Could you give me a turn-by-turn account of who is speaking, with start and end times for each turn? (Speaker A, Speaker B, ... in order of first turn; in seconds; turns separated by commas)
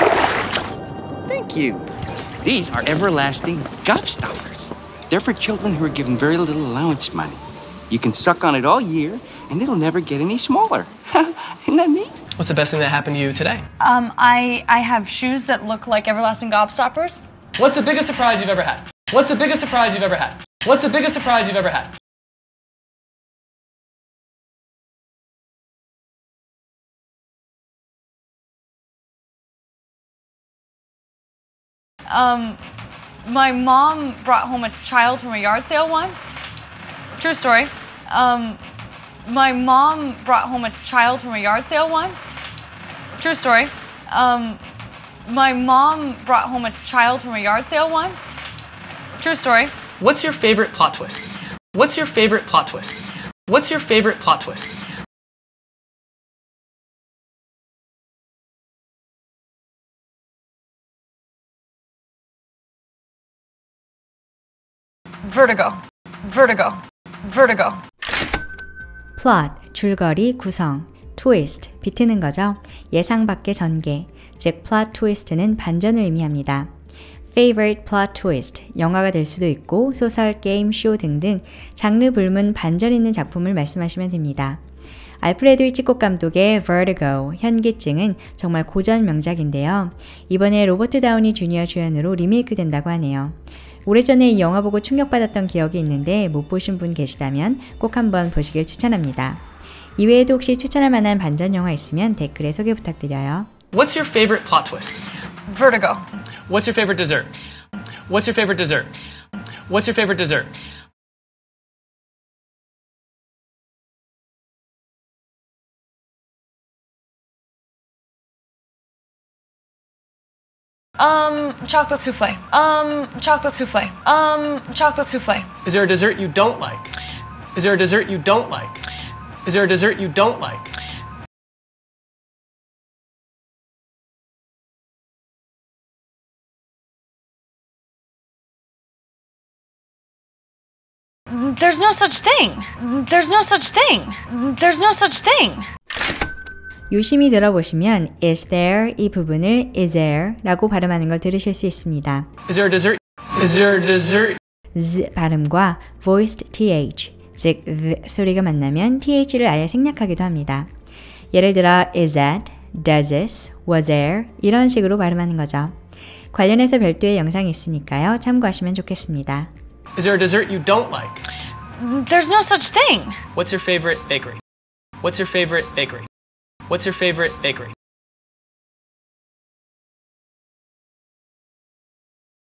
Speaker A: 1.3-1.8, Speaker A: 2.4-12.2, Speaker B: 12.4-13.6, Speaker C: 13.8-17.2, Speaker B: 17.6-21.9, Speaker C: 32.1-32.6, Speaker C: 33.2-36.4, Speaker C: 37.2-38.6, Speaker C: 39.2-42.4, Speaker C: 43.2-44.6, Speaker C: 45.2-48.4, Speaker C: 49.2-49.8, Speaker B: 50.0-54.8, Speaker C: 65.2-67.8, Speaker D: 69.2-76.7, Speaker D: 77.3-84.6, Speaker D: 85.2-99.4, Speaker D: 100.0-103.5, Speaker B: 103.7-105.0, Speaker C: 105.5-106.1, Speaker B: 106.5-107.3, Speaker B: 108.1-108.9, Speaker B: 109.7-110.5, Speaker C: 121.0-125.5, Speaker B: 125.7-127.0, Speaker B: 127.5-128.9, Speaker B: 129.4-130.8, Speaker C: 141.3-145.7, Speaker D: 146.9-152.3, Speaker B: 152.5-154.4, Speaker D: 154.8-160.7, Speaker D: 161.3-165.7, Speaker D: 166.3-169.5, Speaker B: 169.9-171.3, Speaker C: 171.8-173.2, Speaker B: 173.3-174.4, Speaker B: 175.0-176.1, Speaker B: 176.7-177.7